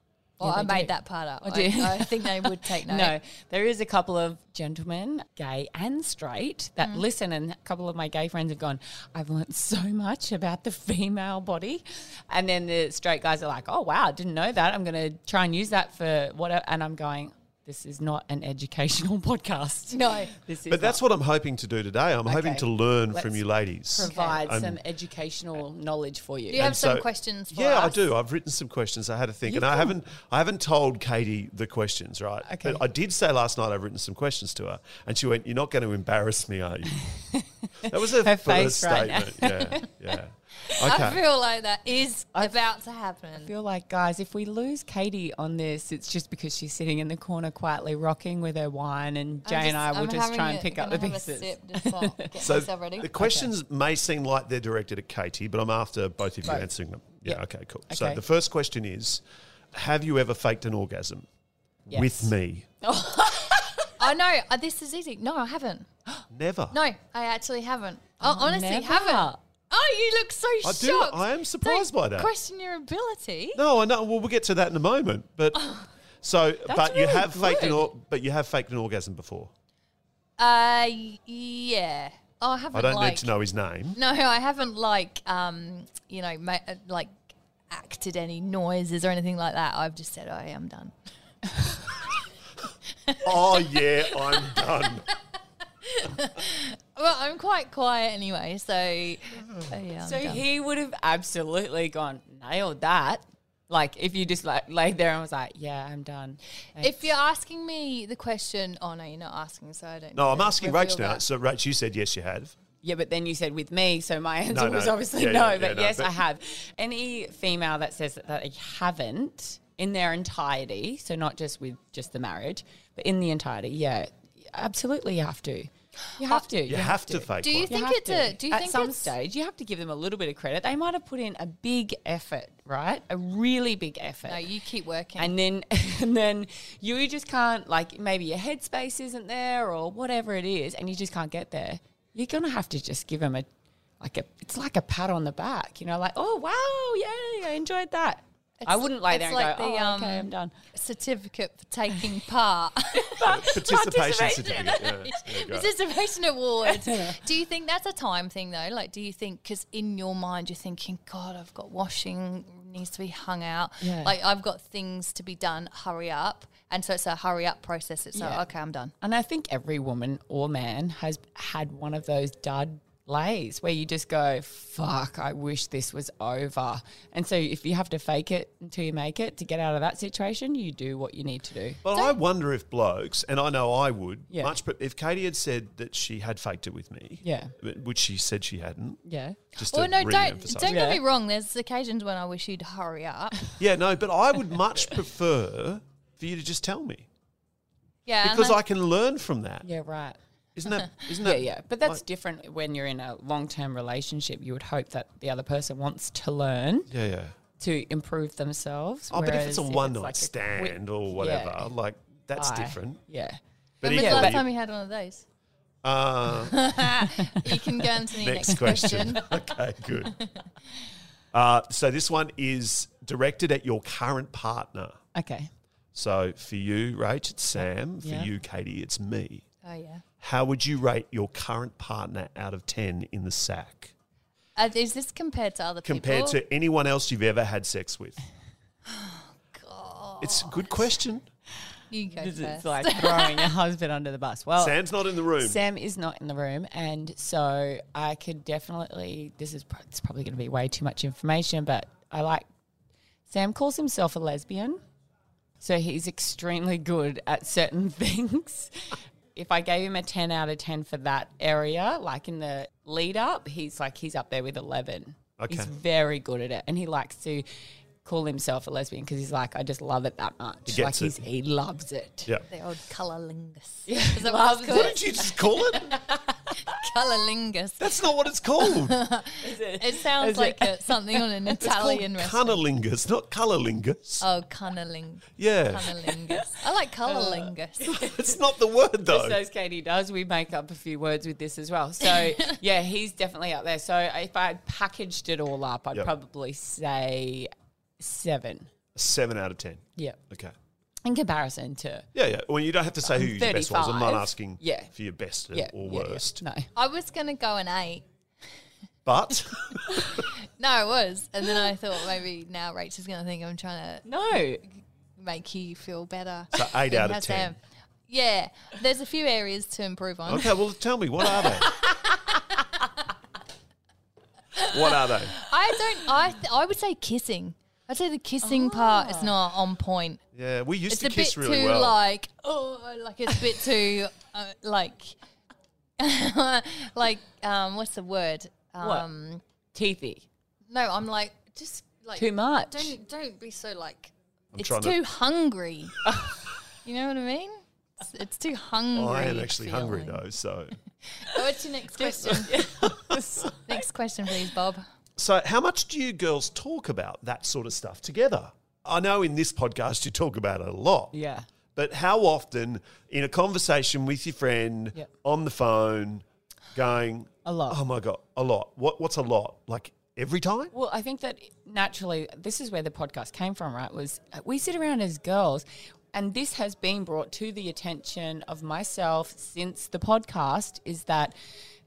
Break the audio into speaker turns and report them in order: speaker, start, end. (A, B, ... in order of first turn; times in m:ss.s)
0:00.4-0:03.2 A
0:00.4-0:00.9 B
0:01.4-0:21.0 B
0:19.9-0:20.3 A
0:20.7-0:24.8 C
0:22.3-0:23.4 B
0:23.9-0:26.7 B
0:24.0-0:24.4 A
0:26.5-0:28.1 A
0:26.6-0:37.0 C
0:29.5-0:29.9 B
0:32.4-0:32.8 B
0:37.1-0:39.8 B
0:37.8-0:41.2 C
0:40.8-0:43.5 A
0:43.3-0:52.3 B
0:49.5-0:53.2 A
0:52.4-0:59.2 C
0:53.1-0:53.5 B
0:57.2-0:58.2 B
0:59.7-1:01.3 C
1:01.9-1:02.7 C
1:01.9-1:03.9 B
1:04.0-1:05.9 A
1:06.3-1:06.8 C
1:06.7-1:13.6 A
1:08.2-1:09.4 B
1:10.6-1:12.3 C
1:13.6-1:19.5 C
1:15.5-1:15.9 A
1:16.7-1:17.9 B
1:20.4-1:23.3 A
1:22.7-1:24.0 C
1:24.0-1:27.1 A
1:27.7-1:30.9 A
1:31.9-1:32.2 A
1:33.1-1:35.0 A
1:33.2-1:35.0 C
1:35.8-1:40.4 A
1:39.4-1:39.7 C
1:40.0-1:47.1 B
1:46.8-1:51.2 A
1:50.2-1:52.6 C
1:52.8-2:14.5 B
1:54.5-1:56.2 C
2:06.7-2:07.8 C
2:07.4-2:09.1 A
2:14.2-2:15.4 A
2:15.2-2:23.5 B
2:24.0-2:30.5 B
2:28.6-2:33.3 A
2:33.0-2:35.1 B
2:33.2-2:35.7 C
2:34.6-2:48.9 A
2:36.7-2:37.2 B
2:43.8-2:44.2 B
2:48.1-2:48.4 B
2:49.0-3:01.8 B
3:01.8-3:09.0 C
3:01.9-3:02.2 A
3:04.3-3:04.6 B
3:07.2-3:07.6 B
3:09.0-3:09.4 B
3:09.6-3:13.4 A
3:09.6-3:10.8 C
3:10.6-3:11.0 B
3:13.6-3:17.1 C
3:18.1-3:18.6 A
3:18.2-3:19.7 C
3:19.6-3:20.2 B
3:20.6-3:22.0 C
3:21.2-3:26.9 B
3:26.9-3:27.4 C
3:27.6-3:31.7 B
3:29.1-3:33.0 C
3:32.3-3:34.4 B
3:33.8-3:34.5 C
3:33.8-3:35.2 A
3:35.8-3:36.6 C
3:36.4-3:39.3 A
3:37.2-3:37.9 B
3:38.2-3:40.2 C
3:38.5-3:39.1 B
3:40.0-3:40.4 A
3:41.3-3:45.0 C
3:45.2-3:45.5 B
3:46.0-3:49.4 C
3:47.6-3:48.3 B
3:49.6-3:50.0 A
3:50.2-3:53.9 C
3:54.6-3:56.4 A
3:55.8-3:58.2 C
3:58.9-4:00.8 A
4:00.2-4:01.2 C
4:01.9-4:03.5 A
4:02.1-4:12.5 B
4:04.6-4:05.6 C
4:13.3-4:14.8 B
4:15.6-4:27.5 B
4:25.4-4:25.7 C
4:28.0-4:32.3 B
4:30.7-4:31.2 C
4:32.5-4:35.2 A
4:33.9-4:36.6 B
4:34.7-4:36.0 C
4:36.6-4:42.6 A
4:37.8-4:39.0 C
4:39.4-4:41.3 B
4:41.6-4:44.2 C
4:44.2-4:47.9 A
4:45.4-4:46.0 C
4:47.1-4:48.4 B
4:47.8-4:49.4 C
4:49.0-4:58.7 B
4:59.0-5:00.5 C
5:01.0-5:02.1 B
5:02.1-5:06.4 C
5:03.0-5:04.9 B
5:05.5-5:06.7 B
5:06.8-5:08.0 A
5:09.1-5:10.2 C
5:09.7-5:14.4 A
5:14.0-5:14.6 B
5:15.2-5:20.6 A
5:16.5-5:17.5 C
5:20.3-5:21.7 C
5:24.6-5:25.4 C
5:24.7-5:30.2 A
5:28.4-5:29.4 B
5:30.3-5:32.0 C
5:30.9-5:35.2 A
5:36.0-5:39.4 A
5:38.8-5:39.1 B
5:39.7-5:40.3 B
5:40.7-5:46.0 A
5:42.2-5:42.9 B
5:44.5-5:45.0 C
5:46.8-5:50.2 A
5:48.9-5:50.8 C
5:51.2-5:52.5 A
5:51.9-5:53.9 B
5:52.8-5:53.2 C
5:53.7-5:54.8 A
5:55.2-6:01.1 C
6:01.1-6:01.5 B
6:01.8-6:10.7 C
6:07.4-6:07.8 B
6:10.7-6:21.3 B